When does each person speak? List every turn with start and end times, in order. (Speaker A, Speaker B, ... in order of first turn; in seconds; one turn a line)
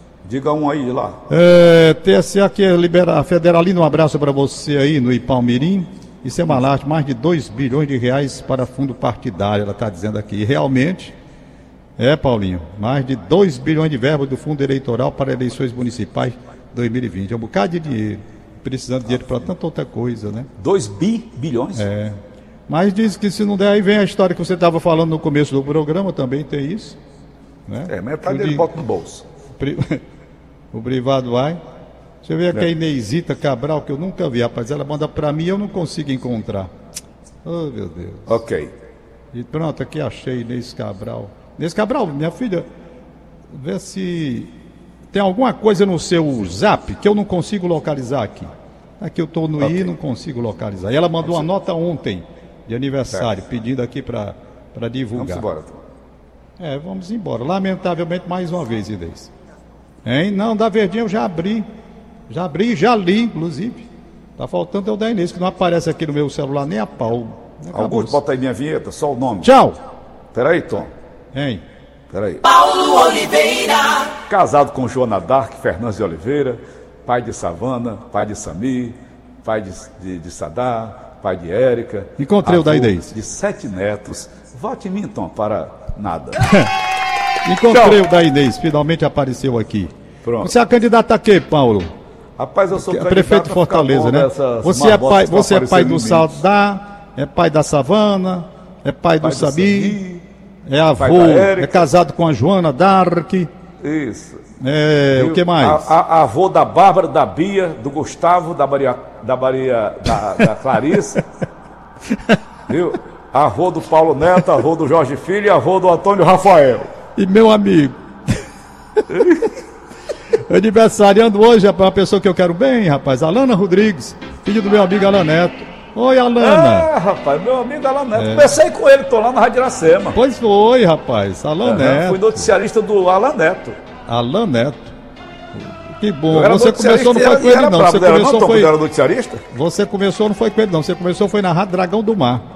Speaker A: 0.2-1.2
Speaker B: 1.3-11.2
Speaker B: 12.0-20.5
Speaker A: 20.6-21.9
Speaker B: 21.8-27.0
Speaker B: 27.7-28.8
Speaker A: 27.9-29.2
Speaker B: 29.6-30.0
Speaker B: 30.7-31.6
Speaker B: 32.2-36.7
Speaker B: 37.4-38.4
Speaker A: 38.3-38.7
Speaker B: 39.3-42.7
Speaker B: 43.5-44.5
Speaker B: 45.1-55.5
Speaker A: 49.6-49.9
Speaker A: 55.2-55.8
Speaker B: 56.6-59.3
Speaker B: 60.0-61.7
Speaker B: 62.3-68.2
Speaker A: 67.7-69.5
Speaker B: 69.4-69.8
Speaker A: 70.3-70.9
Speaker B: 71.3-71.6
Speaker A: 72.1-73.2
Speaker A: 74.0-86.4
Speaker B: 82.2-83.1
Speaker B: 86.4-86.8
Speaker B: 87.4-91.9
Speaker A: 87.7-88.1
Speaker A: 90.2-90.5
Speaker A: 92.4-96.3
Speaker B: 92.7-100.0
Speaker A: 99.2-100.2
Speaker B: 100.7-103.5
Speaker A: 101.0-101.9
Speaker A: 103.8-104.4
Speaker B: 104.6-105.9
Speaker A: 105.1-111.2
Speaker A: 112.7-116.9
Speaker B: 117.2-118.0
Speaker A: 119.1-119.4
Speaker B: 120.3-126.9
Speaker A: 126.4-130.2
Speaker B: 128.2-128.5
Speaker B: 130.1-132.5
Speaker A: 131.6-133.8
Speaker B: 134.1-134.9
Speaker B: 135.6-138.7
Speaker A: 136.3-139.4
Speaker B: 139.5-142.4